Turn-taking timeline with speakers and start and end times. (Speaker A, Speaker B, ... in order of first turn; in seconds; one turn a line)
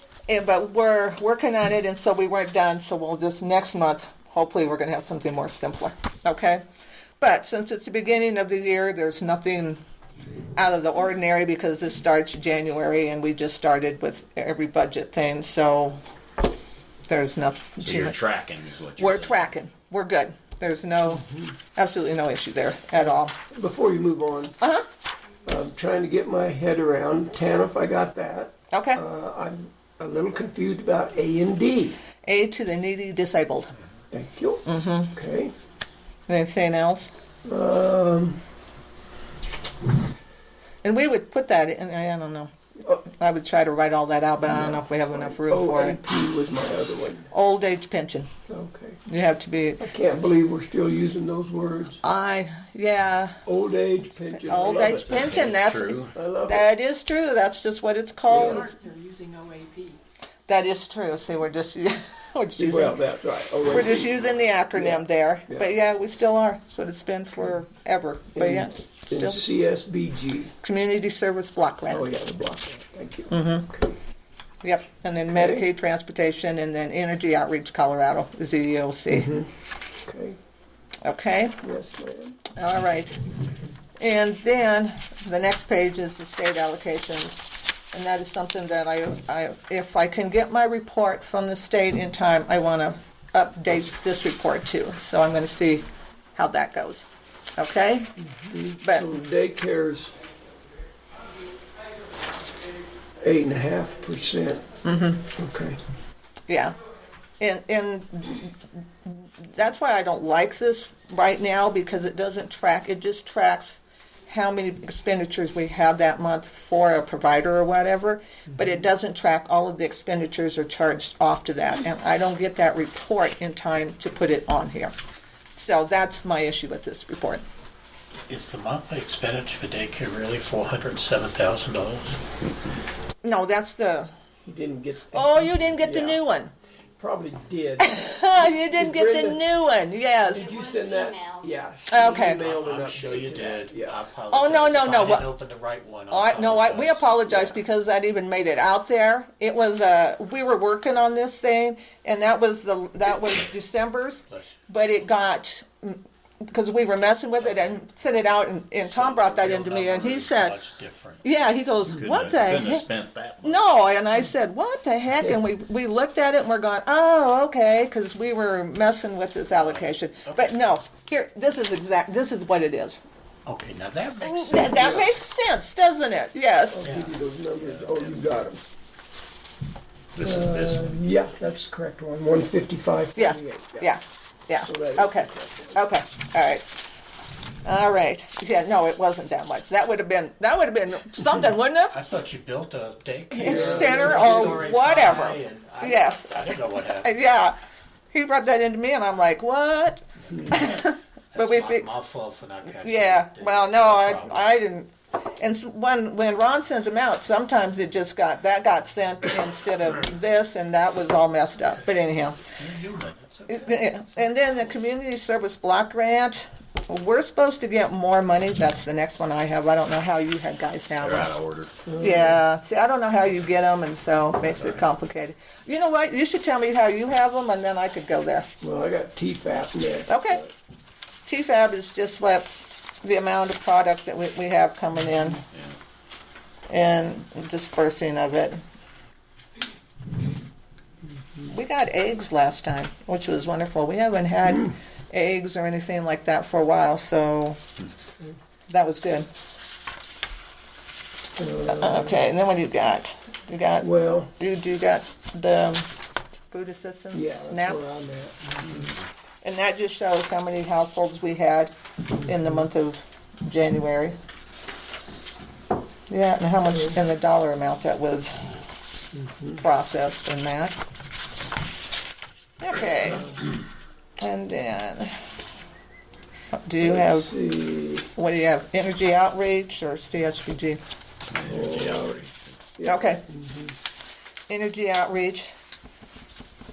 Speaker A: 0.3-6.6
Speaker A: 7.2-9.8
Speaker A: 10.6-16.0
Speaker A: 17.1-18.2
Speaker B: 17.8-19.5
Speaker A: 19.0-23.4
Speaker C: 23.5-24.6
Speaker A: 24.6-24.9
Speaker C: 25.4-32.0
Speaker A: 28.7-29.0
Speaker A: 32.2-33.7
Speaker C: 34.1-35.5
Speaker A: 34.6-35.1
Speaker A: 36.3-37.1
Speaker C: 37.5-38.4
Speaker A: 40.8-46.0
Speaker C: 44.5-47.3
Speaker A: 47.3-48.3
Speaker C: 48.5-49.0
Speaker A: 49.0-50.0
Speaker C: 49.8-52.0
Speaker A: 52.0-53.4
Speaker C: 53.5-55.3
Speaker A: 54.3-58.7
Speaker B: 54.7-56.1
Speaker C: 56.1-56.6
Speaker C: 58.3-58.6
Speaker D: 58.5-60.0
Speaker A: 60.5-63.0
Speaker C: 62.6-64.2
Speaker A: 63.6-69.5
Speaker C: 64.7-65.6
Speaker C: 68.3-68.7
Speaker C: 69.2-70.5
Speaker A: 70.6-72.1
Speaker C: 71.9-73.3
Speaker A: 73.3-73.7
Speaker A: 74.6-79.4
Speaker C: 79.2-79.5
Speaker C: 80.0-80.4
Speaker A: 81.0-81.6
Speaker C: 81.6-82.4
Speaker A: 82.5-83.2
Speaker A: 84.0-97.0
Speaker A: 97.6-98.1
Speaker C: 98.5-100.1
Speaker A: 98.7-99.1
Speaker C: 103.2-104.6
Speaker A: 104.8-105.3
Speaker C: 105.5-105.8
Speaker A: 106.5-106.7
Speaker A: 107.4-124.9
Speaker A: 125.5-127.4
Speaker E: 128.3-132.0
Speaker C: 128.5-132.1
Speaker A: 133.2-134.1
Speaker C: 134.4-136.1
Speaker A: 135.1-136.5
Speaker C: 137.0-139.4
Speaker A: 137.8-140.5
Speaker D: 140.2-141.5
Speaker C: 140.3-144.1
Speaker A: 141.9-142.4
Speaker E: 142.4-146.3
Speaker A: 144.3-145.3
Speaker C: 144.7-145.2
Speaker A: 146.1-160.6
Speaker C: 146.3-147.5
Speaker C: 157.4-157.8
Speaker C: 158.8-160.2
Speaker E: 159.4-161.2
Speaker A: 161.2-162.9
Speaker B: 161.9-163.6
Speaker A: 163.4-173.0
Speaker E: 169.7-170.4
Speaker C: 173.4-175.1
Speaker A: 174.2-176.9
Speaker C: 176.7-178.6
Speaker E: 176.8-177.1
Speaker B: 177.5-178.2
Speaker E: 177.8-178.0
Speaker B: 180.1-181.0
Speaker C: 180.2-183.9
Speaker A: 183.1-186.7
Speaker C: 184.7-185.8
Speaker A: 187.6-191.9
Speaker C: 191.9-195.3
Speaker A: 193.3-197.5
Speaker E: 193.3-197.1
Speaker A: 198.1-201.9
Speaker C: 200.3-200.8
Speaker E: 201.3-204.4
Speaker A: 202.8-212.4
Speaker C: 203.2-204.5
Speaker E: 212.6-213.4
Speaker C: 213.3-214.3
Speaker A: 213.5-221.3
Speaker B: 221.0-221.7
Speaker A: 222.0-228.5
Speaker B: 224.4-224.8
Speaker C: 228.6-230.5
Speaker A: 230.1-230.4
Speaker A: 231.2-232.5
Speaker A: 233.0-235.4
Speaker B: 235.5-235.8
Speaker A: 236.7-238.6
Speaker A: 241.4-247.6
Speaker A: 248.7-249.3
Speaker C: 251.4-252.1
Speaker A: 251.7-255.9
Speaker C: 253.8-254.3
Speaker A: 256.5-257.9
Speaker C: 257.2-258.9
Speaker A: 259.4-264.1
Speaker A: 266.1-268.4
Speaker A: 269.5-270.8
Speaker A: 272.6-273.4
Speaker A: 274.2-275.1
Speaker A: 276.5-277.3
Speaker C: 276.8-278.1
Speaker A: 278.1-280.8
Speaker B: 281.3-282.5
Speaker C: 281.4-282.1
Speaker A: 282.8-283.2
Speaker C: 283.3-283.7
Speaker A: 284.5-285.5